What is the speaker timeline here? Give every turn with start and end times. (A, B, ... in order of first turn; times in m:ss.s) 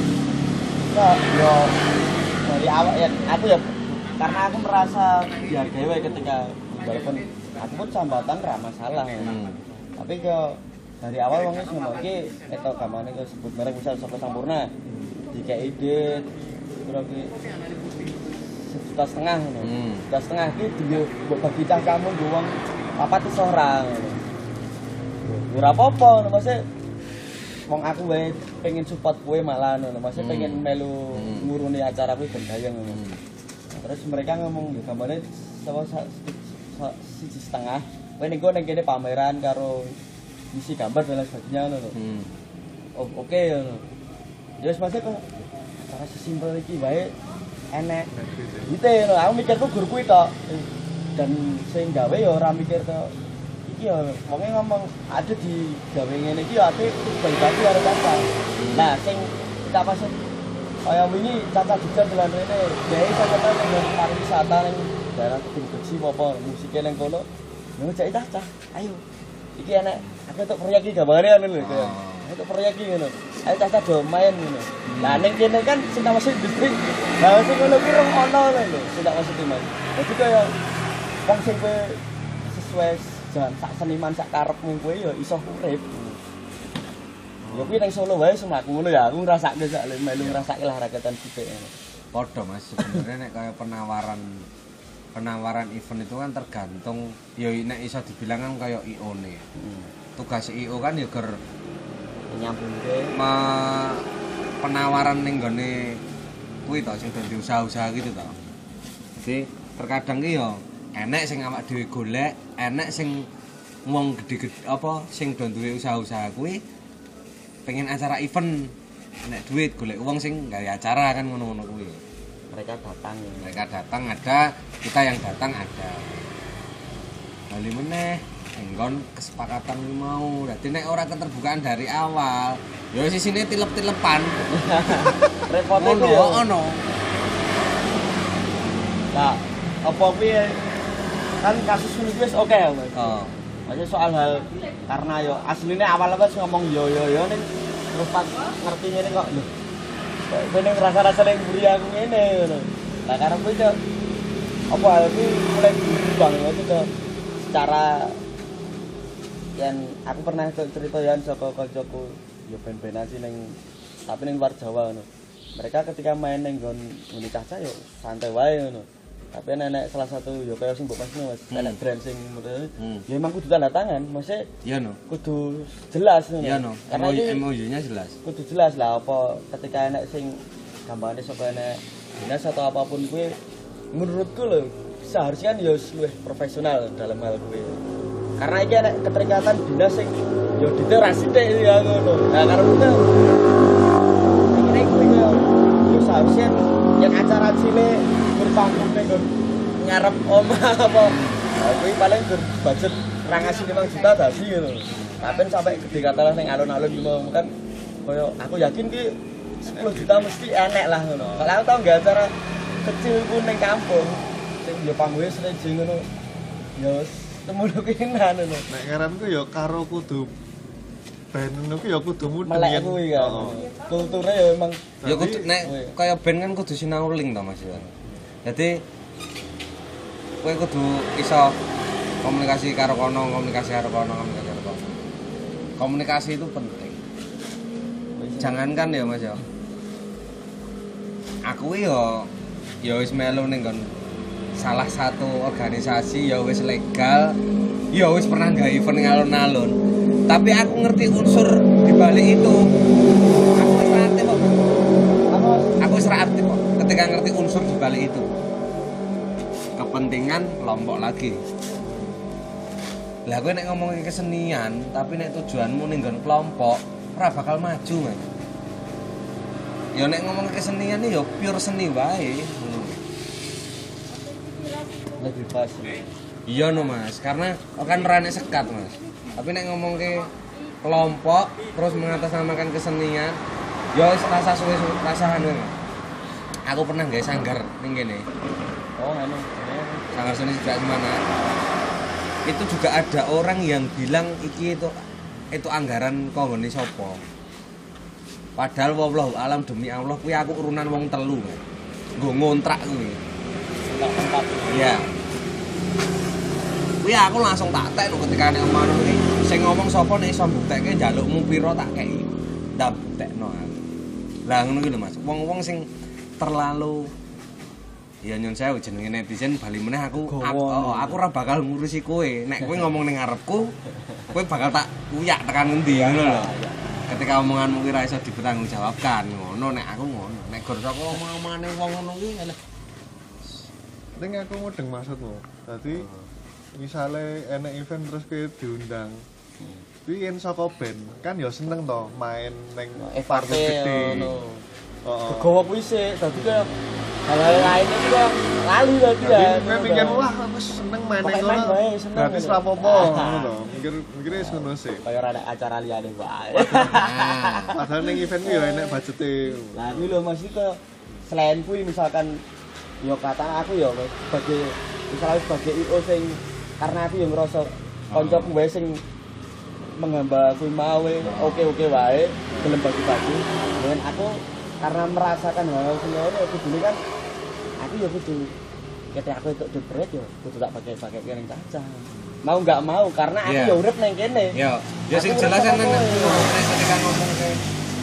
0:00.9-0:09.4 A
0:09.2-0:09.6 B
0:10.0-0:14.7 A
0:14.9-0:15.2 C
0:15.3-0:17.4 A
0:18.7-0:24.2 A
0:19.6-0:20.1 B
0:25.2-0:26.6 A
0:27.7-0:33.0 A
0:30.2-0:31.5 B
0:32.9-0:33.2 B
0:33.7-0:39.9 A
0:40.5-0:41.9 A
0:41.9-0:42.3 B
0:43.0-0:43.9 A
0:44.6-0:45.3 A
0:45.9-0:47.1 A
0:47.7-0:48.1 A
0:48.1-0:48.7 C
0:48.7-0:53.1 A
0:53.6-1:00.1 A
0:58.6-0:58.9 B
1:00.8-1:09.0 A
1:09.6-1:20.5 A
1:11.6-1:12.3 B
1:14.9-1:15.3 B
1:21.2-1:26.2 A
1:27.4-1:27.8 C
1:27.5-1:31.7 A
1:30.2-1:30.4 B
1:32.1-1:34.5 B
1:35.1-1:39.4 B
1:39.6-1:39.9 A
1:40.2-1:41.4 B
1:42.3-1:43.1 A
1:43.1-1:44.0 B
1:44.6-1:46.0 B
1:46.6-1:48.4 B
1:49.2-1:53.3 B
1:53.8-1:56.6 B
1:57.6-1:58.7 B
1:59.2-2:02.0 B
2:02.5-2:03.6 A
2:03.4-2:06.2 B
2:07.5-2:14.4 B
2:14.5-2:16.4 A
2:15.7-2:16.8 B
2:19.1-2:20.8 A
2:21.4-2:29.5 A
2:22.9-2:23.3 B
2:30.3-2:33.8 A
2:34.7-2:36.9 A
2:37.4-2:38.2 A
2:39.6-2:54.4 A
2:51.5-2:51.8 B
2:52.8-2:53.0 B
2:54.6-2:55.0 B
2:55.1-2:57.4 A
2:56.4-2:58.2 B
2:58.2-3:03.3 A
3:03.9-3:07.8 A
3:08.4-3:13.1 A
3:14.5-3:27.5 A
3:21.0-3:21.5 B
3:28.0-3:36.0 A
3:36.8-3:38.6 A
3:38.7-3:40.4 C
3:41.3-3:43.7 C
3:42.4-3:45.0 A
3:45.0-3:45.5 C
3:45.0-3:47.9 B
3:45.6-3:45.9 A
3:48.4-3:48.8 B
3:50.4-3:51.6 B
3:52.2-3:54.9 B
3:55.8-3:57.0 B
3:58.2-3:58.7 A
3:58.4-3:59.4 B
4:01.4-4:02.3 B
4:02.8-4:03.9 B
4:04.6-4:07.4 B
4:07.9-4:09.7 B
4:10.3-4:12.7 B
4:13.5-4:14.6 B
4:15.3-4:15.7 A
4:15.8-4:18.3 B
4:19.8-4:21.4 B
4:23.3-4:28.2 B
4:29.9-4:33.0 B
4:35.2-4:36.1 A
4:36.5-4:40.3 B
4:40.8-4:43.4 B
4:43.9-4:45.7 B
4:46.7-4:48.2 B
4:49.0-4:50.4 A
4:50.1-4:51.2 B
4:52.4-4:54.9 B
4:55.5-4:57.2 B
4:58.6-5:01.6 B
5:02.2-5:03.2 B
5:03.9-5:04.9 A
5:04.7-5:05.1 B
5:07.0-5:13.8 B
5:14.4-5:15.9 B
5:16.4-5:17.1 B
5:18.2-5:23.7 B
5:20.2-5:21.2 A
5:24.3-5:26.5 B
5:25.9-5:26.9 A
5:27.1-5:32.6 B
5:34.2-5:36.1 C
5:35.9-5:36.3 A
5:36.7-5:39.2 C
5:39.6-5:39.8 A
5:40.0-5:44.4 C
5:43.0-5:44.6 A
5:45.0-5:45.5 C
5:45.3-5:46.7 A
5:47.2-5:50.3 A
5:49.2-5:55.0 C
5:51.2-5:53.5 A
5:54.4-5:59.0 A
5:56.7-5:57.8 B
5:56.7-5:57.0 C
5:57.7-6:00.2 C
5:59.7-6:02.4 A
6:03.0-6:09.0 A
6:08.1-6:08.5 B
6:09.9-6:17.0 A
6:11.2-6:11.7 B
6:12.5-6:12.8 C
6:17.8-6:18.5 A
6:19.1-6:24.6 A
6:23.4-6:23.8 B
6:24.5-6:27.6 B
6:25.1-6:26.6 A